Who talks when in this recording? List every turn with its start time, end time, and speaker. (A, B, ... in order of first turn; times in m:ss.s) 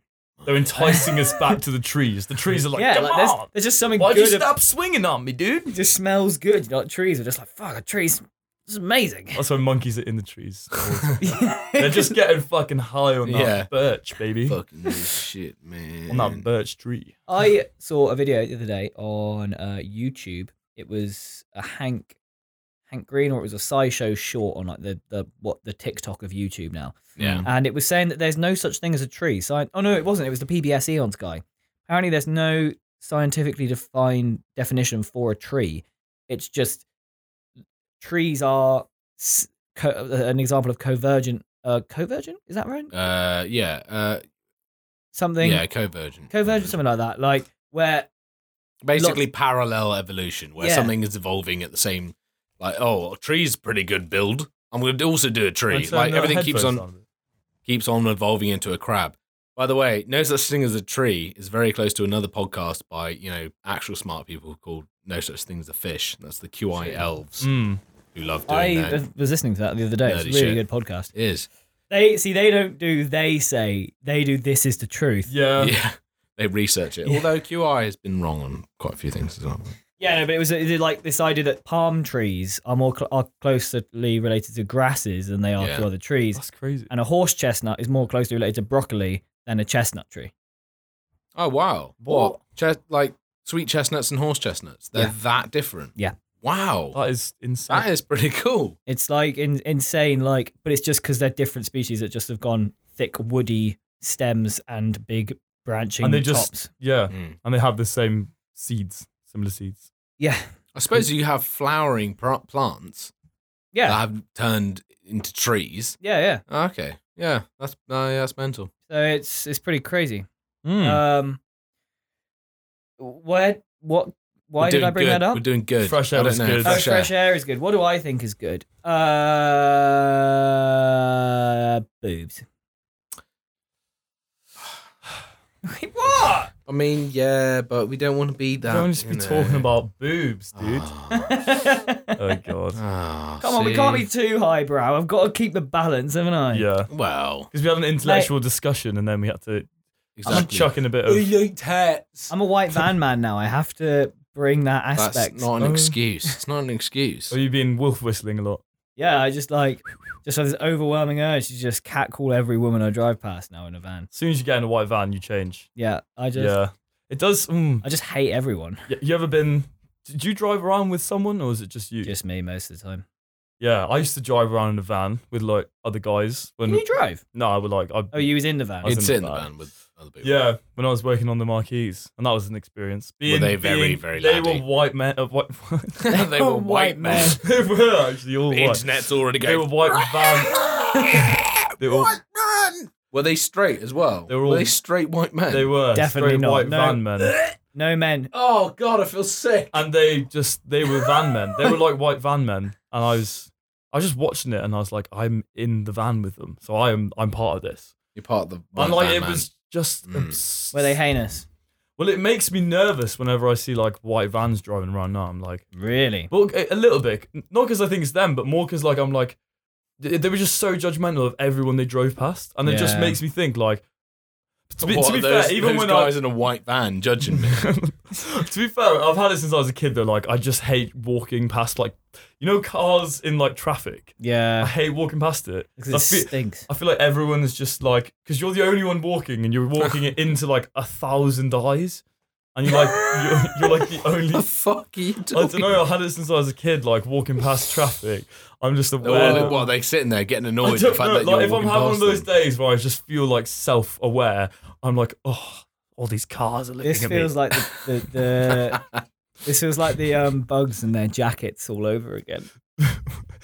0:00.4-0:01.0 A
0:00.4-0:05.7 B
0:00.8-0:01.2 C
0:02.7-0:04.5 C
0:05.7-0:09.4 C
0:09.3-0:14.6 B
0:11.2-0:12.1 C
0:13.2-0:13.7 A
0:14.4-0:16.4 A
0:16.1-0:17.2 B
0:17.3-0:22.2 C
0:22.9-0:36.8 C
0:27.2-0:27.5 A
0:38.0-0:42.9 C
0:42.9-0:44.2 A
0:45.1-0:45.6 C
0:45.4-0:46.8 A
0:46.3-0:48.1 C
0:48.8-0:56.8 A
0:49.0-0:49.2 C
0:50.6-0:50.9 C
0:55.7-0:57.0 B
0:57.6-1:07.5 A
1:07.4-1:07.8 B
1:08.1-1:09.0 A
1:08.5-1:11.1 C
1:10.0-1:11.5 A
1:11.9-1:15.3 C
1:15.3-1:15.8 B
1:15.6-1:19.8 A
1:20.0-1:30.3 C
1:25.6-1:25.9 A
1:26.4-1:26.9 B
1:31.3-1:37.0 A
1:32.0-1:32.4 B
1:36.9-1:37.9 B
1:37.7-1:38.8 A
1:38.9-1:46.7 C
1:46.0-1:49.9 B
1:50.2-1:51.0 C
1:50.7-1:53.1 A
1:53.7-1:54.0 C
1:53.9-1:58.7 A
1:56.0-1:56.4 C
1:58.9-2:00.2 C
2:00.6-2:01.0 B
2:00.8-2:01.4 C
2:03.0-2:05.4 C
2:04.6-2:07.1 A
2:05.8-2:06.9 B
2:06.6-2:12.4 C
2:15.6-2:16.5 C
2:16.6-2:19.7 A
2:18.7-2:20.9 B
2:20.6-2:21.3 A
2:21.1-2:22.2 C
2:22.2-2:22.8 B
2:22.8-2:24.0 A
2:23.4-2:26.6 C
2:26.5-2:26.9 B
2:26.9-2:27.5 A
2:27.5-2:29.7 B
2:28.0-2:28.3 C
2:30.2-2:32.3 A
2:30.2-2:31.3 B
2:32.3-2:35.5 C
2:35.0-2:37.4 A
2:35.6-2:36.0 B
2:37.3-2:38.6 B
2:39.0-2:44.1 C
2:44.1-2:45.7 B
2:45.8-2:46.5 C
2:46.4-2:47.8 B
2:47.8-2:48.9 C
2:48.9-2:52.1 B
2:52.0-2:53.0 C
2:53.6-2:59.5 B
2:56.6-2:57.2 C
2:58.1-2:59.0 C
2:58.8-3:00.3 A
3:00.2-3:06.1 B
3:03.2-3:04.6 A
3:06.0-3:07.4 A
3:06.1-3:07.4 C
3:07.4-3:08.8 B
3:08.5-3:15.7 A
3:09.4-3:10.6 B
3:11.8-3:12.1 B
3:14.3-3:14.7 B
3:15.5-3:17.4 B
3:15.9-3:17.0 C
3:17.6-3:18.3 C
3:18.3-3:19.8 A
3:19.7-3:27.9 B
3:28.2-3:29.5 A
3:28.7-3:31.0 B
3:30.1-3:30.4 A
3:30.7-3:31.4 C
3:32.0-3:35.6 B
3:35.7-3:36.3 C
3:36.3-3:39.4 B
3:40.0-3:43.8 B
3:42.6-3:43.2 C
3:44.7-3:46.1 B
3:44.8-3:47.7 A
3:47.3-4:02.0 B
3:54.2-3:54.7 C
3:55.8-3:56.7 C
4:02.5-4:04.5 B
4:02.7-4:05.8 A
4:05.3-4:09.7 B
4:09.0-4:12.3 A
4:09.2-4:09.5 C
4:10.6-4:17.3 B
4:16.8-4:18.8 C
4:19.4-4:22.5 C
4:22.8-4:23.2 B